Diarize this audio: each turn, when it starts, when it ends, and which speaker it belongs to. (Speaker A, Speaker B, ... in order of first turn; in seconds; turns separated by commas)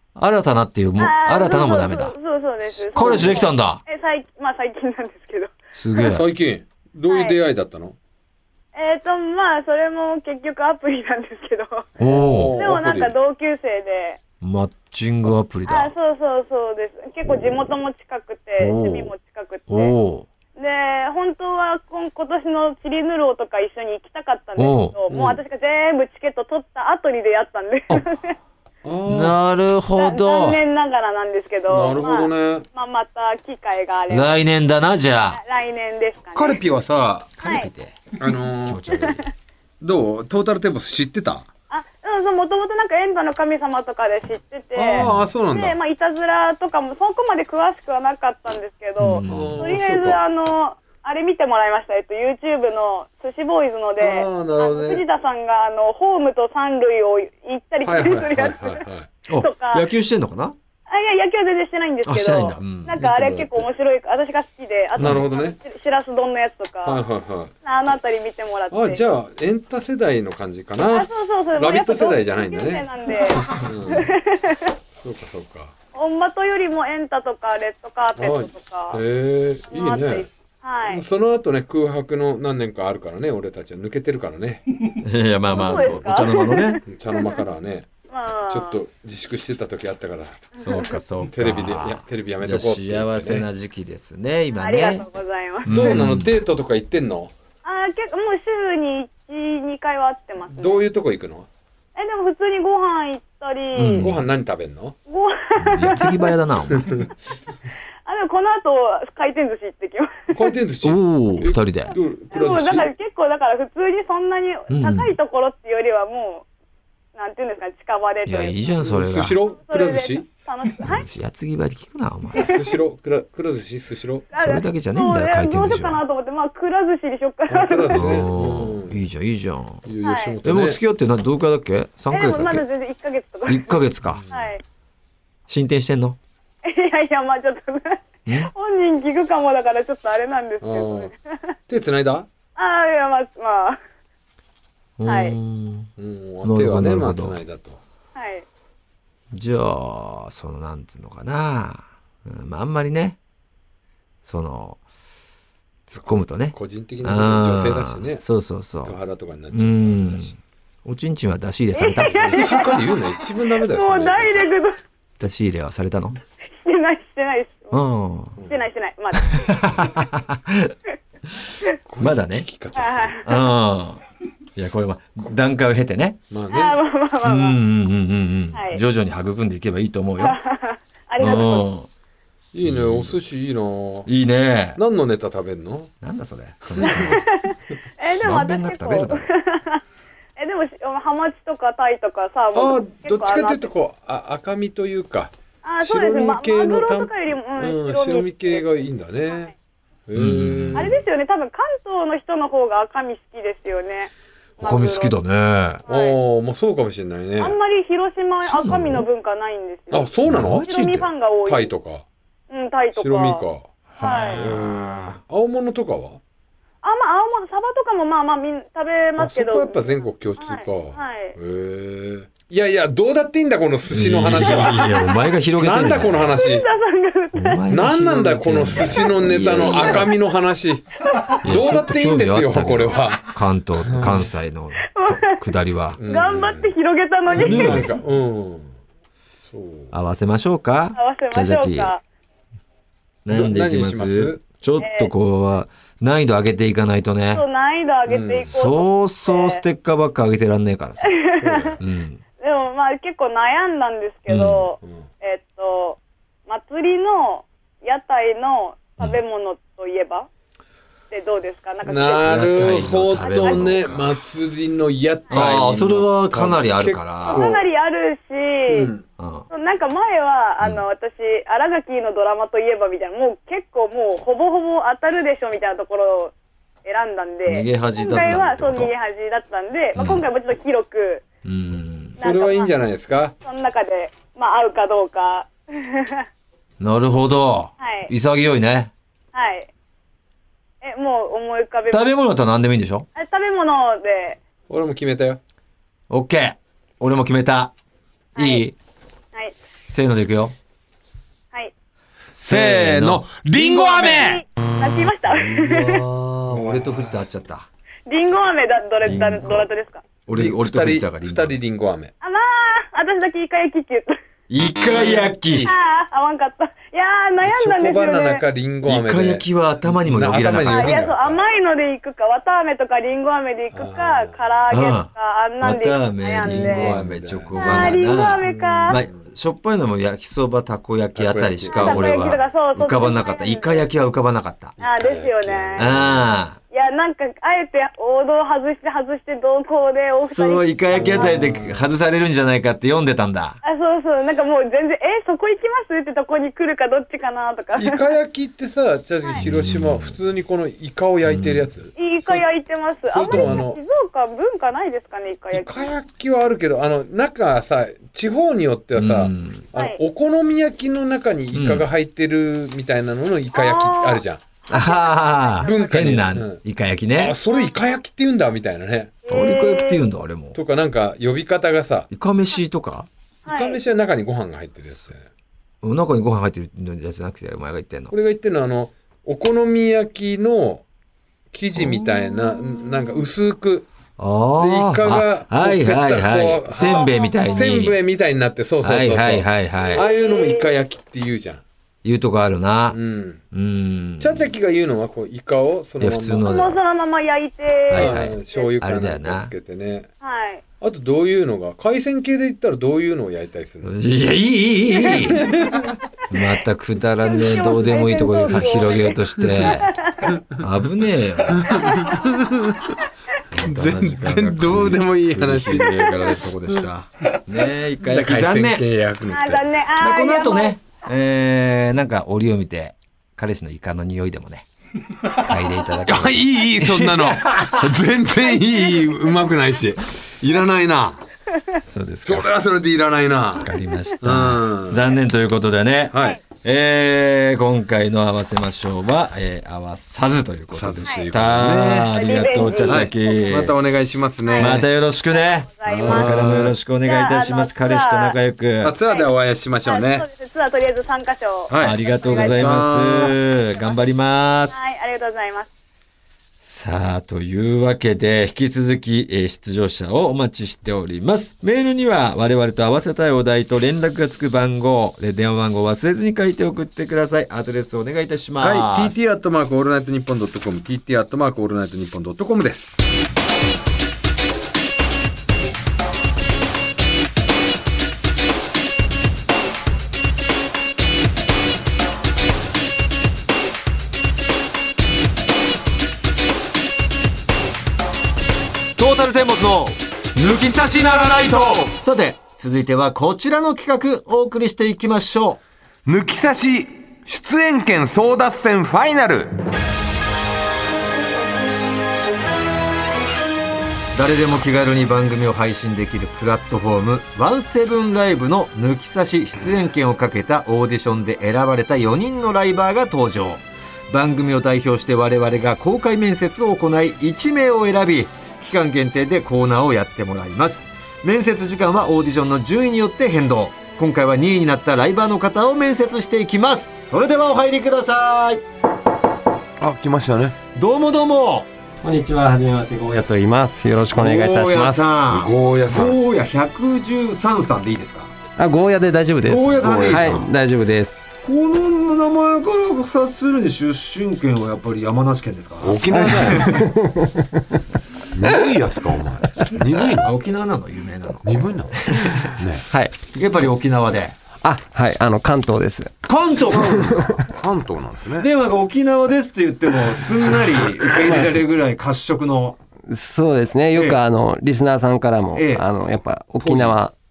Speaker A: 0.2-2.2, Speaker B: 1.0-6.1, Speaker A: 2.9-3.8, Speaker C: 3.0-3.4, Speaker A: 5.8-6.2, Speaker C: 6.0-8.0, Speaker B: 7.1-7.4, Speaker B: 8.8-11.9, Speaker A: 12.0-12.6, Speaker C: 12.1-13.1, Speaker B: 12.6-14.2, Speaker A: 14.4-15.9, Speaker B: 15.7-20.0, Speaker A: 18.6-19.1, Speaker A: 19.7-20.3, Speaker B: 20.6-28.4, Speaker A: 24.6-24.9, Speaker C: 25.1-25.4, Speaker C: 28.8-29.4, Speaker A: 29.1-30.6, Speaker B: 30.0-34.3, Speaker C: 31.7-32.6, Speaker A: 34.1-35.4, Speaker B: 35.3-36.6, Speaker C: 36.4-37.3, Speaker A: 37.4-38.0, Speaker B: 37.4-37.7, Speaker C: 38.2-38.8, Speaker A: 38.6-39.2, Speaker B: 38.9-39.3, Speaker C: 39.8-41.5, Speaker B: 41.7-59.9, Speaker C: 44.8-45.8, Speaker A: 44.9-45.3, Speaker A: 49.0-49.7, Speaker C: 49.3-50.2, Speaker C: 54.0-55.0, Speaker C: 57.8-59.1, Speaker A: 59.3-60.6, Speaker B: 60.9-67.0, Speaker A: 62.0-63.0, Speaker C: 63.0-63.7, Speaker C: 65.0-65.6, Speaker A: 65.0-65.2, Speaker C: 66.8-67.5, Speaker B: 67.7-69.0, Speaker C: 68.7-72.9, Speaker B: 70.9-74.7, Speaker C: 73.5-74.1, Speaker C: 75.0-75.7, Speaker B: 75.9-79.0, Speaker C: 78.2-80.3, Speaker B: 79.7-81.0, Speaker C: 80.9-84.6, Speaker A: 85.0-86.8, Speaker B: 85.5-87.4, Speaker C: 85.7-85.9, Speaker C: 86.9-87.9, Speaker B: 88.1-88.8, Speaker C: 88.5-90.5, Speaker B: 90.5-90.9, Speaker A: 90.6-95.1, Speaker C: 91.2-93.5, Speaker B: 94.5-96.0, Speaker A: 95.7-96.3, Speaker C: 95.7-97.3, Speaker B: 97.6-100.9, Speaker C: 100.6-101.5, Speaker B: 102.0-104.1, Speaker A: 103.8-104.2, Speaker C: 104.0-105.0, Speaker B: 105.1-106.4, Speaker A: 105.6-107.1, Speaker B: 108.0-110.1, Speaker C: 110.3-112.9, Speaker A: 110.8-112.0, Speaker B: 111.9-116.5, Speaker A: 114.7-115.2, Speaker B: 117.2-121.1, Speaker A: 118.2-119.4, Speaker C: 118.8-120.3, Speaker A: 120.8-122.5, Speaker C: 122.4-124.3, Speaker B: 122.4-122.7, Speaker B: 124.3-128.3, Speaker A: 124.3-126.0, Speaker C: 127.5-129.0, Speaker A: 127.9-129.9, Speaker C: 129.9-130.8, Speaker B: 130.0-130.4, Speaker A: 130.4-132.7, Speaker B: 132.1-134.6, Speaker A: 133.5-134.2, Speaker C: 134.1-134.5, Speaker A: 135.5-136.2, Speaker B: 136.7-141.6, Speaker A: 138.3-138.5, Speaker C: 140.6-141.1, Speaker C: 141.7-142.3, Speaker B: 142.6-143.8, Speaker A: 145.0-145.9, Speaker B: 145.1-145.4, Speaker C: 146.0-147.8, Speaker A: 146.4-147.4, Speaker B: 148.2-148.4, Speaker A: 149.3-153.2, Speaker A: 154.2-154.8, Speaker A: 155.9-159.0, Speaker C: 156.5-158.2, Speaker C: 158.8-160.3, Speaker A: 159.5-162.6, Speaker B: 161.8-162.8, Speaker C: 162.2-164.5, Speaker B: 163.6-164.8, Speaker A: 165.2-166.2, Speaker B: 166.6-167.8, Speaker A: 167.7-168.4, Speaker B: 168.5-169.9, Speaker A: 169.2-170.8, Speaker C: 171.9-173.2, Speaker A: 172.0-172.5, Speaker B: 172.8-173.5, Speaker A: 173.2-174.0, Speaker A: 174.6-176.2, Speaker C: 176.3-176.8, Speaker B: 176.5-177.6, Speaker A: 177.2-180.4, Speaker B: 178.5-178.8, Speaker B: 180.2-181.7, Speaker A: 181.2-181.9, Speaker C: 182.5-184.1, Speaker A: 182.6-183.2, Speaker A: 184.1-184.8, Speaker C: 184.8-185.9, Speaker A: 186.0-187.3, Speaker C: 186.7-187.2, Speaker B: 186.8-189.8, Speaker A: 188.2-189.3, Speaker B: 190.4-193.7, Speaker C: 192.5-199.5, Speaker B: 195.6-199.5, Speaker C: 200.1-201.0, Speaker A: 200.1-201.0, Speaker B: 200.8-205.2, Speaker A: 204.6-205.8, Speaker B: 205.9-206.2, Speaker C: 205.9-207.6, Speaker B: 207.4-211.7, Speaker A: 208.4-209.1, Speaker C: 209.9-210.7, Speaker A: 210.3-211.1, Speaker C: 211.5-212.1, Speaker B: 212.5-213.4, Speaker C: 213.0-216.2, Speaker B: 214.0-214.4, Speaker A: 214.0-215.2, Speaker B: 216.8-221.4, Speaker C: 219.2-226.7, Speaker A: 223.9-226.4, Speaker B: 224.4-225.1, Speaker B: 226.4-227.7, Speaker A: 227.3-230.1, Speaker C: 227.7-233.3, Speaker B: 228.7-230.1, Speaker A: 231.4-236.0, Speaker C: 233.8-234.3, Speaker B: 234.9-235.4, Speaker C: 236.0-236.7, Speaker B: 236.1-237.9, Speaker C: 237.3-238.7, Speaker A: 237.3-237.9, Speaker C: 239.5-239.9, Speaker A: 239.9-241.9, Speaker B: 241.0-242.0, Speaker A: 243.2-247.4, Speaker C: 243.3-244.4, Speaker B: 244.8-245.1, Speaker B: 247.3-249.6, Speaker C: 248.1-248.5, Speaker A: 248.5-251.2, Speaker B: 251.0-251.8, Speaker C: 251.3-251.8, Speaker A: 251.8-252.2, Speaker B: 252.4-260.3, Speaker A: 254.3-254.7, Speaker B: 261.1-263.7, Speaker C: 261.9-267.6, Speaker A: 262.2-264.2, Speaker A: 265.3-267.5, Speaker B: 267.3-268.9, Speaker C: 268.7-269.0, Speaker A: 269.2-269.5, Speaker B: 269.5-276.3, Speaker B: 276.9-281.2, Speaker A: 277.5-278.9, Speaker A: 280.0-280.2, Speaker A: 281.4-282.2, Speaker B: 282.2-282.7, Speaker C: 282.2-283.3, Speaker B: 283.4-286.3, Speaker A: 286.8-288.9, Speaker B: 287.8-288.1, Speaker B: 289.3-289.7, Speaker B: 290.8-292.1, Speaker A: 291.9-293.1, Speaker B: 293.2-294.4, Speaker C: 294.7-295.4, Speaker A: 296.1-297.7, Speaker B: 298.4-298.7, Speaker A: 298.4-298.8, Speaker A: 299.9-300.6, Speaker A: 302.3-303.8, Speaker C: 302.4-304.4, Speaker B: 303.6-306.1, Speaker A: 305.3-307.7, Speaker C: 306.5-307.1, Speaker B: 308.1-310.0, Speaker A: 309.0-309.7, Speaker A: 310.3-311.6, Speaker C: 310.3-312.1, Speaker B: 312.2-314.2, Speaker A: 314.5-315.7, Speaker C: 314.9-315.7, Speaker B: 315.6-318.4, Speaker C: 317.4-321.4, Speaker A: 318.9-321.0, Speaker B: 320.6-327.0, Speaker C: 323.7-324.4, Speaker A: 324.7-325.1, Speaker A: 325.6-334.8, Speaker C: 326.4-329.2, Speaker B: 327.6-329.0, Speaker C: 331.2-332.3, Speaker B: 331.7-333.8, Speaker C: 334.8-336.3, Speaker B: 334.8-336.0, Speaker A: 335.8-336.6, Speaker B: 336.7-341.6, Speaker A: 340.3-343.6, Speaker C: 340.9-341.8, Speaker B: 343.6-348.0, Speaker C: 347.7-352.4, Speaker A: 349.4-350.2, Speaker A: 351.2-351.7, Speaker B: 352.0-355.9, Speaker C: 353.1-353.8, Speaker A: 353.3-353.6, Speaker C: 355.5-364.4, Speaker A: 358.9-359.6, Speaker B: 359.8-360.0, Speaker A: 361.5-361.9, Speaker B: 363.5-366.2, Speaker A: 364.7-367.4, Speaker C: 365.6-366.6, Speaker C: 367.2-369.2, Speaker B: 367.5-367.8, Speaker B: 369.2-370.1, Speaker A: 369.3-370.6, Speaker C: 370.5-372.1, Speaker A: 372.1-373.1, Speaker B: 373.4-373.8, Speaker C: 373.5-375.3, Speaker A: 375.8-378.1, Speaker C: 378.1-380.9, Speaker C: 381.5-383.9, Speaker A: 384.2-388.0, Speaker C: 384.6-391.6, Speaker B: 386.8-387.7, Speaker A: 388.8-390.1, Speaker B: 389.9-390.8, Speaker A: 392.0-393.0, Speaker C: 392.9-393.4, Speaker A: 393.5-394.5, Speaker C: 394.2-396.5, Speaker A: 396.0-396.8, Speaker B: 396.4-398.7, Speaker A: 397.9-399.5, Speaker C: 397.9-400.1, Speaker B: 400.2-400.6, Speaker C: 400.8-404.0, Speaker A: 403.8-405.5, Speaker C: 405.3-405.9, Speaker A: 406.3-410.0, Speaker B: 407.3-410.3, Speaker A: 410.5-412.0, Speaker C: 411.5-412.9, Speaker B: 411.9-412.2, Speaker A: 413.5-418.9, Speaker C: 413.7-416.9, Speaker C: 418.0-419.6, Speaker B: 419.3-420.8, Speaker A: 420.0-424.7, Speaker A: 425.2-427.9, Speaker C: 426.1-431.2, Speaker A: 431.9-432.5, Speaker C: 432.2-435.1, Speaker A: 433.6-443.8, Speaker C: 436.1-436.4, Speaker C: 440.7-444.9, Speaker B: 442.1-443.7, Speaker B: 444.4-448.4, Speaker A: 444.6-449.0, Speaker C: 445.9-446.8, Speaker C: 448.8-450.3, Speaker B: 449.1-449.3, Speaker B: 449.8-452.9, Speaker C: 451.7-453.4, Speaker A: 451.8-454.8, Speaker B: 454.7-455.7, Speaker A: 456.6-469.2, Speaker C: 468.6-473.0, Speaker A: 489.0-495.6, Speaker C: 496.1-499.5, Speaker A: 504.1-528.6, Speaker C: 529.8-530.5, Speaker A: 530.8-531.7, Speaker D: 532.0-535.2, Speaker A: 534.1-538.3, Speaker C: 535.3-536.1, Speaker D: 538.6-541.3, Speaker A: 539.5-540.5, Speaker A: 541.4-546.9, Speaker C: 545.8-546.8, Speaker D: 546.1-547.7, Speaker C: 548.4-550.3, Speaker A: 549.8-552.7, Speaker C: 551.5-552.8, Speaker D: 552.9-553.2, Speaker A: 553.3-554.4, Speaker D: 554.6-556.2, Speaker A: 556.2-557.2, Speaker D: 556.8-557.5, Speaker C: 557.5-558.4, Speaker A: 558.4-562.8, Speaker D: 561.2-561.6, Speaker D: 563.1-567.1, Speaker A: 565.5-565.9, Speaker A: 566.6-566.9